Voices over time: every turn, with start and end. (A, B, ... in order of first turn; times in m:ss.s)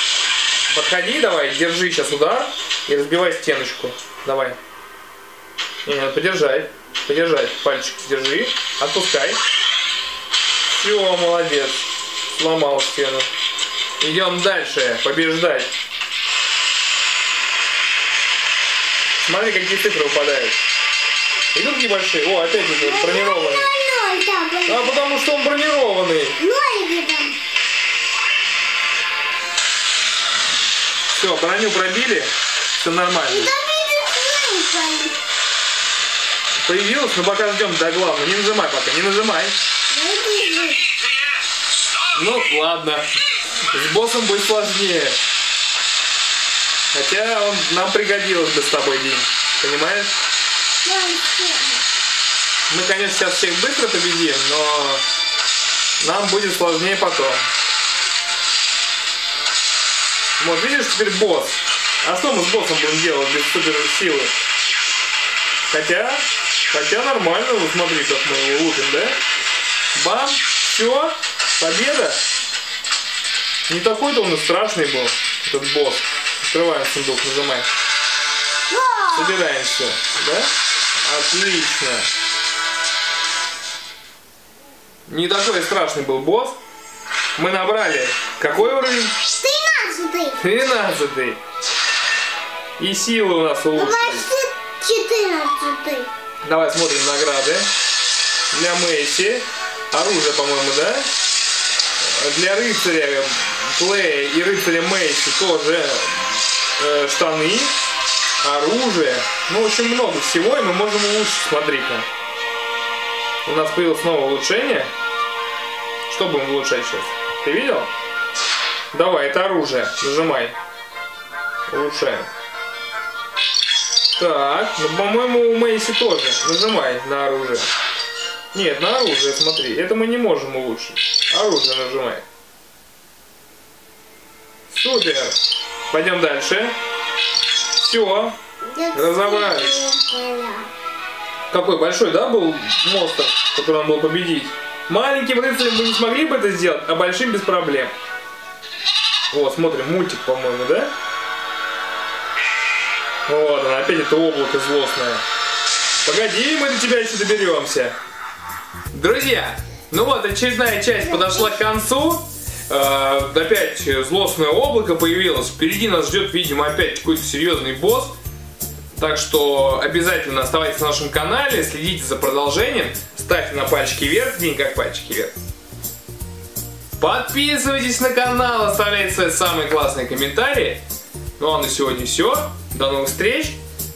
0:00.7-0:04.6 A
0:05.8-0:09.4 A
0:10.7-0:13.3 A
0:14.0-0:15.7 A
0:19.2-0:20.6 A
0:21.5-0:23.7 A
0:22.5-0:25.1 B
0:24.6-0:26.4 A
0:26.4-0:27.4 B
0:31.1-0:33.5 A
0:33.3-0:35.2 B
0:36.6-0:39.6 A
0:39.9-0:40.8 B
0:42.1-0:45.2 A
0:46.9-0:50.1 A
0:50.8-0:51.8 B
0:52.7-0:55.0 A
0:56.0-0:57.4 A
1:00.4-1:04.3 A
1:05.7-1:09.2 A
1:09.9-1:12.2 A
1:13.7-1:17.7 A
1:18.7-1:19.4 B
1:19.1-1:20.5 A
1:21.0-1:22.1 A
1:25.1-1:26.6 A
1:27.4-1:29.1 A
1:29.2-1:30.4 B
1:30.4-1:31.4 A
1:32.8-1:34.3 A
1:33.7-1:36.1 B
1:36.4-1:37.7 A
1:38.5-1:41.1 A
1:42.0-1:47.7 A
1:48.4-1:52.0 A
1:53.4-1:54.9 A
1:56.1-1:57.9 A
1:58.9-2:00.5 A
2:01.7-2:02.3 A
2:04.2-2:07.7 A
2:08.5-2:12.2 A
2:14.7-2:15.4 A
2:15.9-2:16.7 A
2:17.7-2:18.4 A
2:18.6-2:20.7 B
2:18.9-2:19.8 A
2:21.5-2:27.9 A
2:29.3-2:30.9 A
2:33.3-2:35.2 A
2:36.0-2:37.9 A
2:38.9-2:48.1 A
2:49.0-2:55.3 A
2:57.0-3:00.8 A
3:01.4-3:03.6 A